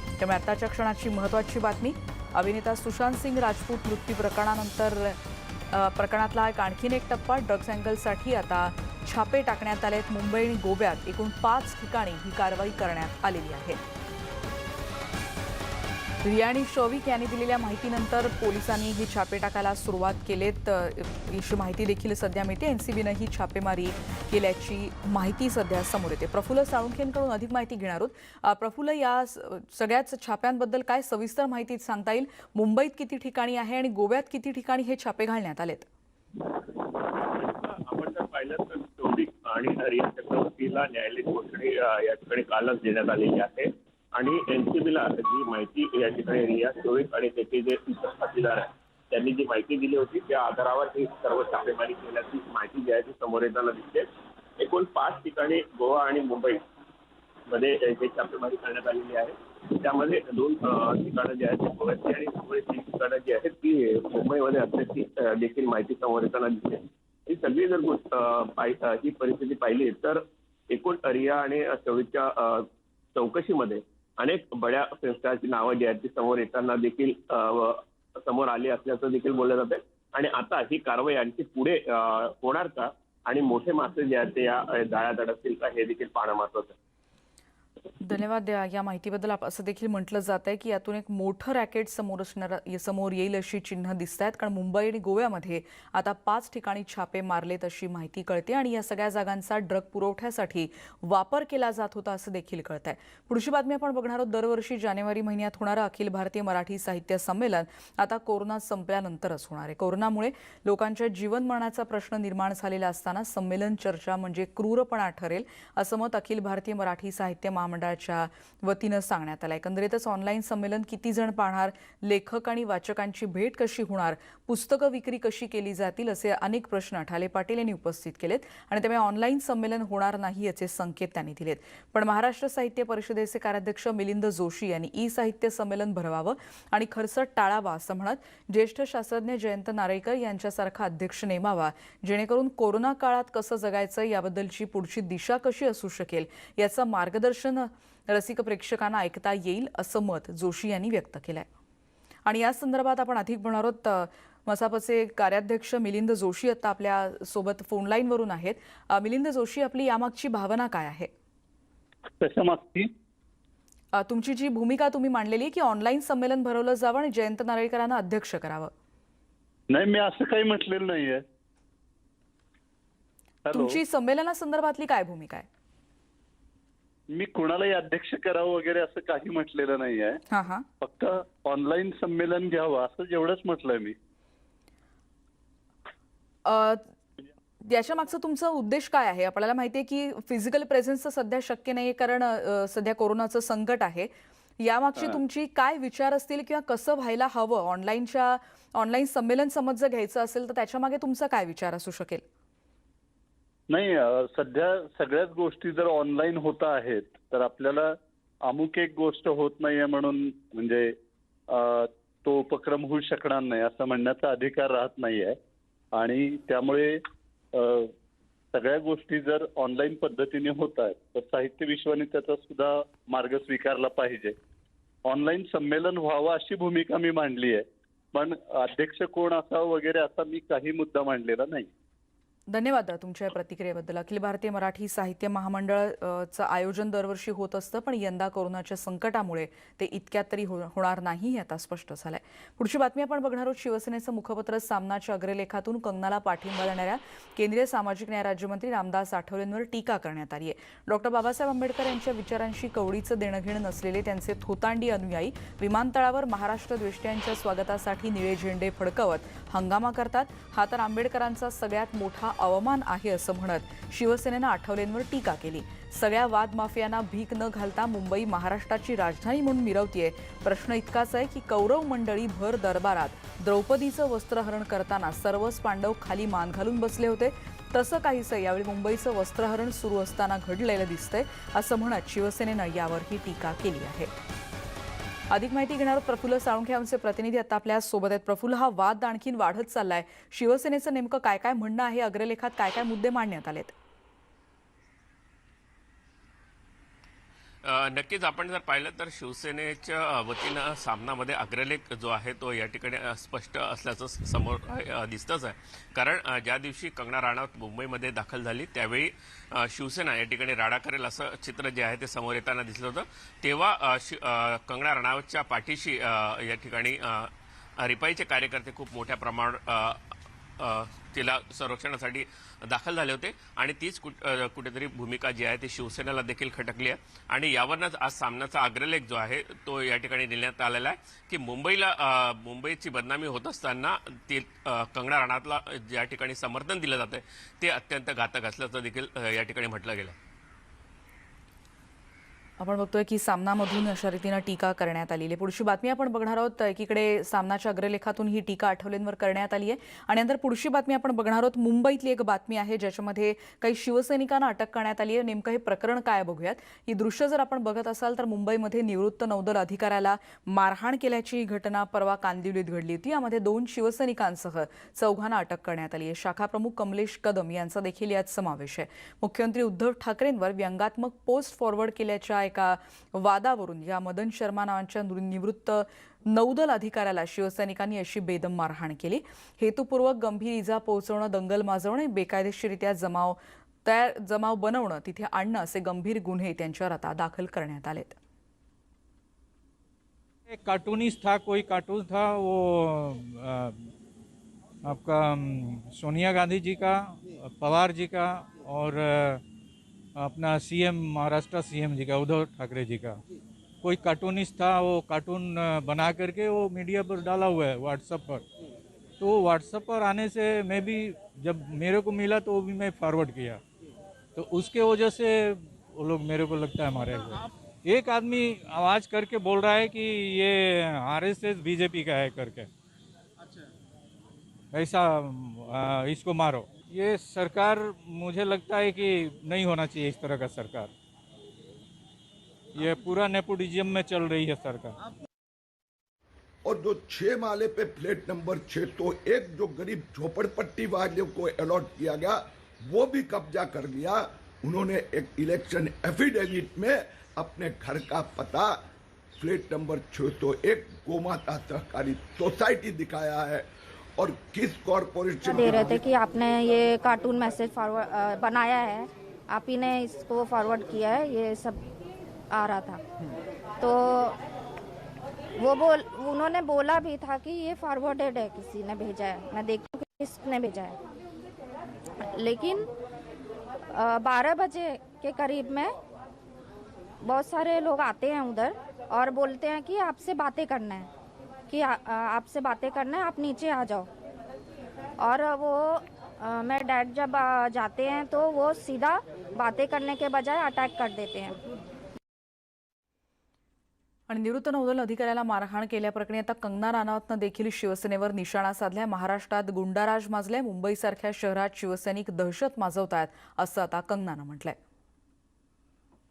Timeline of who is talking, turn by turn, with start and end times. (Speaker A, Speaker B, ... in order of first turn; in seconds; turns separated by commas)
Speaker A: 0.2-5.2, Speaker A: 5.7-13.8, Speaker A: 16.2-35.9, Speaker B: 37.0-54.1, Speaker B: 54.6-56.6, Speaker B: 57.5-86.7, Speaker A: 88.0-151.5, Speaker A: 152.3-161.1, Speaker C: 162.2-162.9, Speaker A: 163.9-168.7, Speaker C: 169.7-171.2, Speaker C: 173.5-173.8, Speaker A: 173.5-175.5, Speaker C: 177.2-180.2, Speaker A: 180.3-180.7, Speaker C: 180.8-183.9, Speaker A: 186.5-186.9, Speaker A: 187.7-202.2, Speaker C: 203.7-207.9, Speaker C: 208.5-210.9, Speaker C: 211.5-215.4, Speaker C: 216.0-216.9, Speaker C: 217.6-217.9, Speaker C: 218.5-224.3, Speaker C: 225.1-227.6, Speaker C: 228.2-231.7, Speaker A: 232.5-284.1, Speaker A: 285.3-293.7, Speaker D: 297.6-320.0, Speaker D: 320.6-340.1, Speaker A: 342.6-388.2, Speaker E: 390.5-393.8, Speaker E: 394.9-399.4, Speaker E: 400.2-403.2, Speaker E: 403.8-408.5, Speaker E: 409.2-413.6, Speaker E: 414.4-422.7, Speaker E: 424.7-430.9, Speaker E: 432.8-435.0, Speaker F: 436.6-448.8, Speaker F: 449.4-453.7, Speaker F: 454.2-456.1, Speaker G: 455.4-461.8, Speaker G: 462.5-463.0, Speaker G: 463.8-464.4, Speaker G: 465.6-471.0, Speaker G: 472.3-472.9, Speaker G: 473.9-475.9, Speaker G: 477.2-481.1, Speaker G: 481.7-484.1, Speaker G: 485.2-491.6, Speaker A: 494.3-504.8